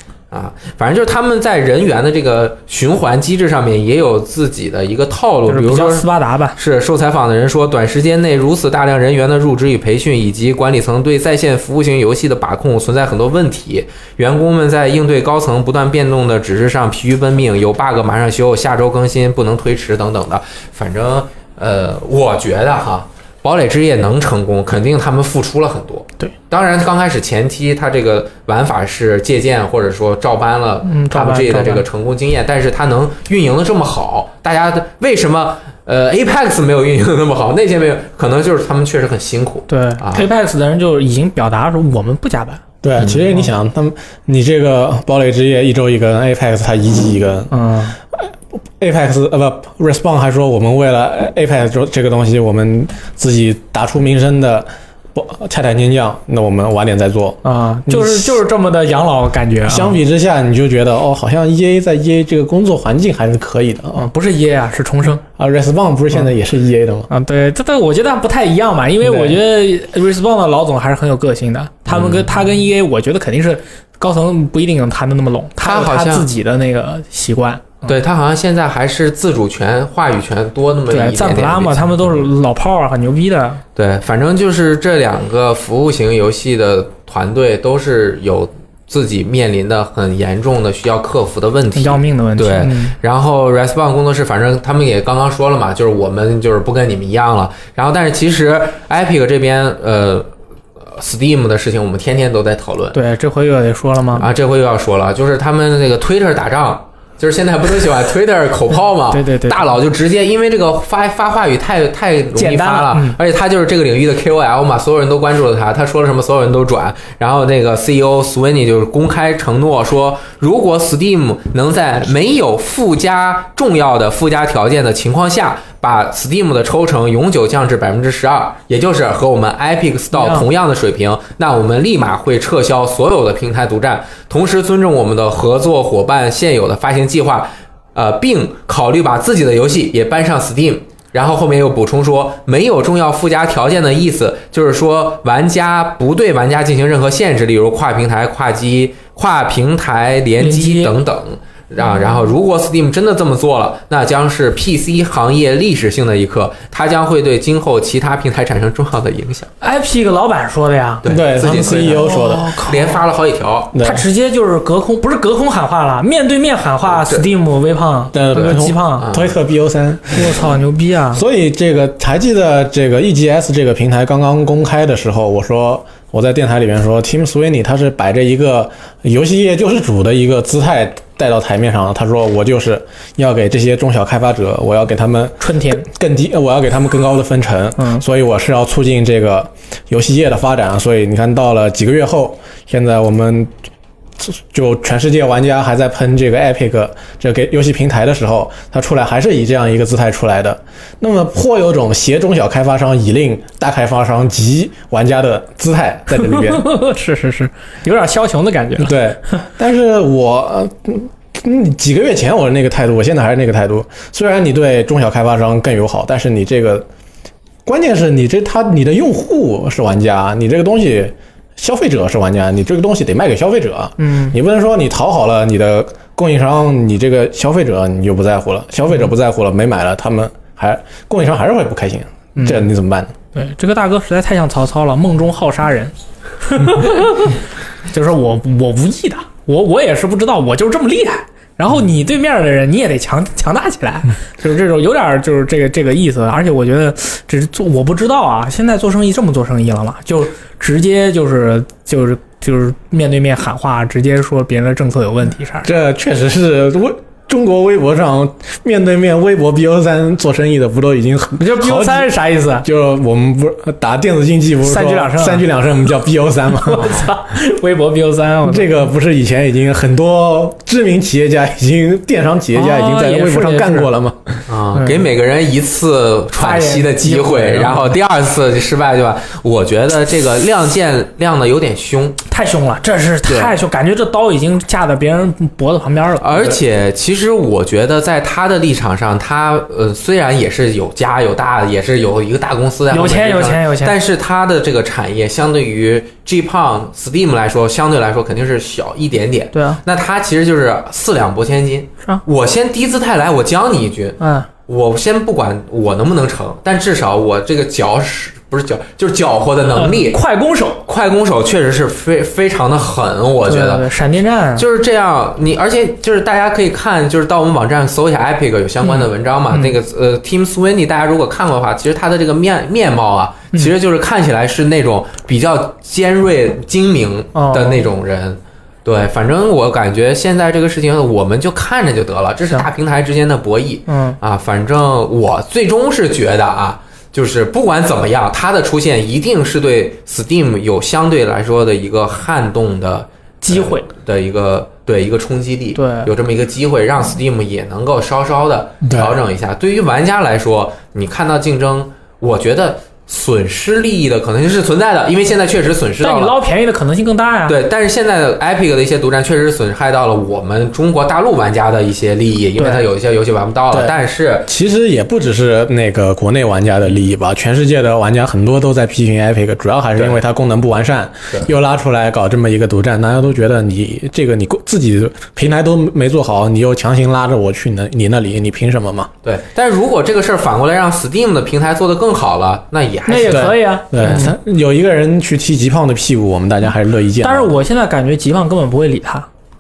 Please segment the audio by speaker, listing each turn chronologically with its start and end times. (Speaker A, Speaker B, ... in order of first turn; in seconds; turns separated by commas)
Speaker A: 0.3-40.3, Speaker B: 5.5-6.6, Speaker B: 30.9-31.9, Speaker B: 39.7-42.6, Speaker C: 42.8-47.5, Speaker B: 47.5-48.0, Speaker C: 48.1-58.4, Speaker B: 57.4-60.0, Speaker C: 59.7-64.1, Speaker B: 64.0-65.2, Speaker C: 65.3-67.1, Speaker B: 67.1-78.0, Speaker C: 69.0-69.4, Speaker A: 71.9-72.3, Speaker A: 75.6-76.3, Speaker A: 77.9-82.3, Speaker B: 80.9-83.6, Speaker A: 83.8-100.3, Speaker B: 91.8-93.0, Speaker A: 100.9-103.0, Speaker B: 102.9-104.3, Speaker A: 104.2-159.5, Speaker B: 109.1-109.6, Speaker B: 112.4-113.2, Speaker B: 130.1-130.5, Speaker B: 150.4-150.9, Speaker B: 159.6-163.0, Speaker A: 161.0-163.7, Speaker C: 161.1-162.6, Speaker C: 163.7-164.0, Speaker B: 163.8-169.1, Speaker A: 166.9-167.2, Speaker C: 168.1-170.4, Speaker A: 169.0-169.4, Speaker B: 170.1-171.2, Speaker C: 171.1-193.5, Speaker B: 185.4-185.9, Speaker B: 187.8-188.0, Speaker C: 194.2-206.7, Speaker B: 206.2-209.0, Speaker C: 208.8-216.9, Speaker C: 217.7-233.1, Speaker B: 224.0-224.3, Speaker B: 232.3-232.7, Speaker B: 233.3-237.4, Speaker B: 237.9-255.7, Speaker C: 255.6-267.1, Speaker B: 261.4-262.7, Speaker B: 264.6-265.4, Speaker B: 266.6-268.8, Speaker C: 268.5-274.4, Speaker B: 272.5-273.9, Speaker A: 274.5-282.2, Speaker B: 274.7-275.0, Speaker B: 276.4-277.9, Speaker B: 282.3-286.6, Speaker A: 283.3-283.5, Speaker A: 286.2-310.2, Speaker B: 292.9-294.0, Speaker B: 299.5-299.8, Speaker B: 304.2-304.5, Speaker B: 309.8-310.8, Speaker A: 310.9-313.9, Speaker B: 313.5-314.7, Speaker A: 314.6-356.4, Speaker B: 318.8-319.8, Speaker B: 327.3-327.8, Speaker B: 333.9-334.2, Speaker B: 343.4-343.9, Speaker B: 345.8-346.1, Speaker C: 348.8-349.2, Speaker B: 356.0-357.6, Speaker A: 357.5-364.5, Speaker B: 362.6-362.9, Speaker C: 364.5-379.1, Speaker A: 379.2-384.2, Speaker B: 383.1-384.3, Speaker C: 383.3-387.6, Speaker B: 387.2-389.3